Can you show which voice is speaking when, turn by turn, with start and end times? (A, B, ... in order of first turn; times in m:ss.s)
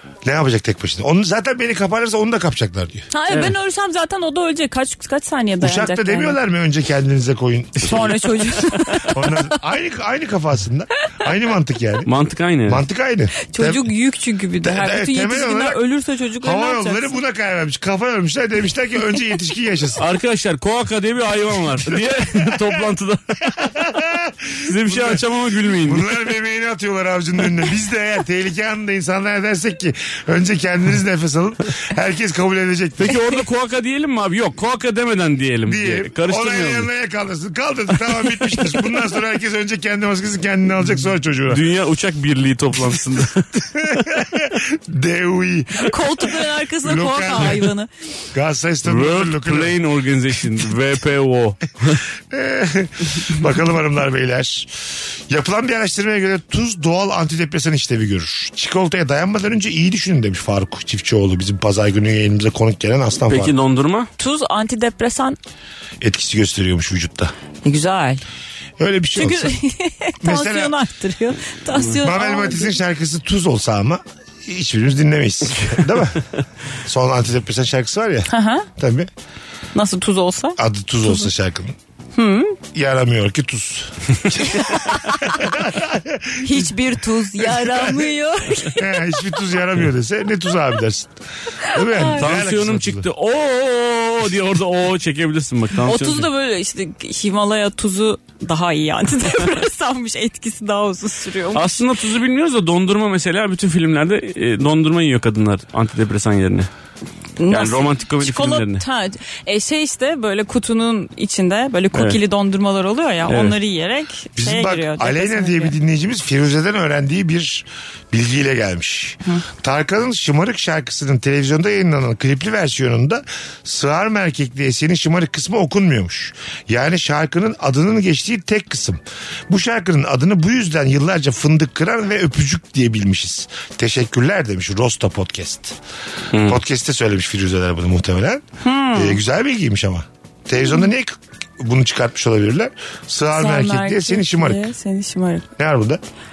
0:00.2-0:03.1 A
0:03.1-0:06.4 B
0:03.3-0:03.5 C
0:05.6-0:08.3 A
0:07.8-0:09.5 B
0:09.0-0:12.1 A
0:12.1-0:12.8 C
0:12.6-0:13.9 A
0:13.4-0:17.2 B
0:14.6-0:15.8 A
0:16.4-0:20.0 A
0:20.0-0:23.4 C
0:22.3-0:22.7 A
0:23.5-0:33.2 A
0:24.6-0:26.1 C
0:33.0-0:36.9 C
0:35.6-0:41.6 A
0:41.5-0:43.5 C
0:43.6-0:46.3 A
0:45.7-0:47.9 B
0:46.8-0:47.7 A
0:48.3-0:49.8 A
0:48.8-0:52.0 C
0:52.3-1:03.5 A
1:03.3-1:04.1 C
1:04.2-1:05.4 B
1:06.0-1:07.3 A
1:07.6-1:08.2 B
1:08.8-1:09.6 A
1:09.1-1:12.8 B
1:10.2-1:10.8 A
1:12.0-1:16.3 A
1:16.8-1:19.1 A
1:18.3-1:18.7 B
1:19.7-1:21.3 B
1:20.6-1:21.8 A
1:22.2-1:22.6 B
1:22.7-1:26.7 A
1:24.5-1:25.4 B
1:26.4-1:29.2 B
1:27.4-1:28.1 A
1:28.7-1:33.1 A
1:31.6-1:32.2 B
1:32.2-1:36.3 C
1:35.8-1:41.9 B
1:41.5-1:46.7 C
1:47.4-1:55.7 B
1:47.5-1:48.8 C
1:51.9-1:52.2 C
1:53.3-1:53.6 C
1:54.4-2:15.8 A
2:16.3-2:16.6 C
2:16.3-2:18.4 A
2:18.6-2:19.2 B
2:18.9-2:24.7 A
2:23.3-2:25.4 B
2:25.6-2:26.0 A